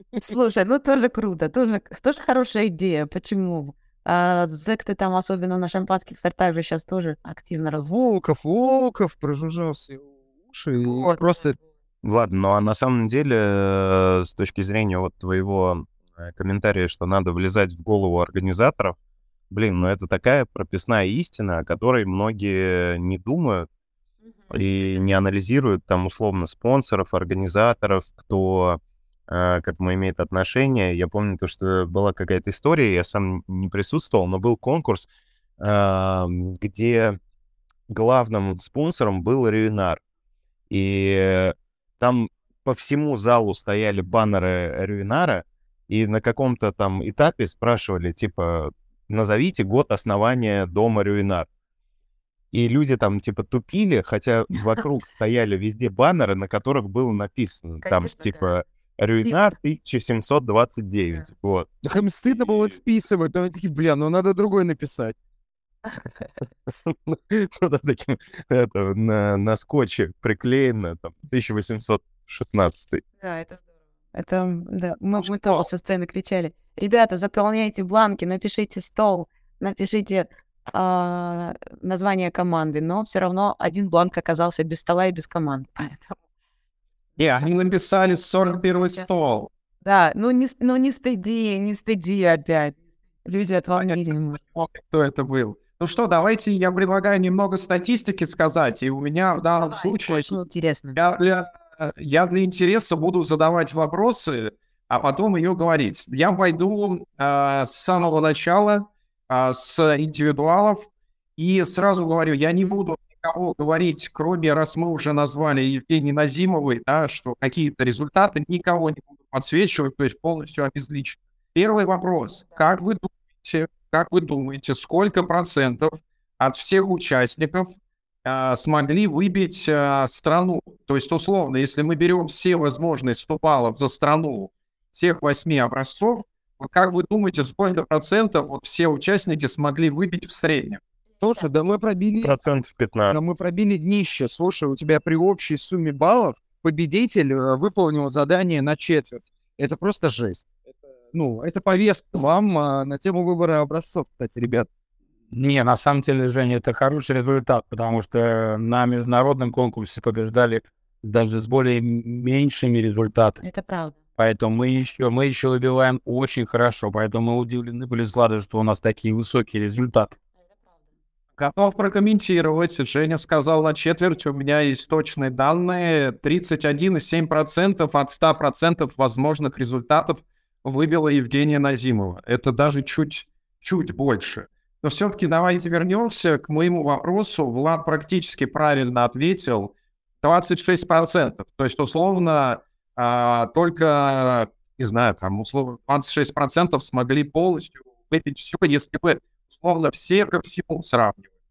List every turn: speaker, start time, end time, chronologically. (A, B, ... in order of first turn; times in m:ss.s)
0:00.2-0:07.9 A
0:07.9-0:11.6 B
0:12.0-0:19.0 C
0:19.5-0:23.7 C
0:24.5-0:35.1 C
0:35.6-0:37.2 C
0:37.9-0:40.0 C
0:40.7-0:51.5 C
0:52.5-1:01.7 C
0:57.8-0:58.5 A
0:59.2-0:59.5 A
1:01.8-1:05.2 B
1:06.9-1:13.0 C
1:13.2-1:13.6 A
1:14.1-1:26.2 A
1:27.2-1:29.5 D
1:29.8-1:34.4 A
1:34.5-1:40.4 D
1:39.7-1:41.0 A
1:41.0-2:20.8 D
2:21.2-2:22.4 B
2:22.2-2:23.2 C
2:23.1-2:30.6 B
2:31.1-2:34.7 B
2:35.3-2:43.4 E
2:43.4-2:44.0 A
2:44.2-2:50.2 E
2:51.4-3:21.2 D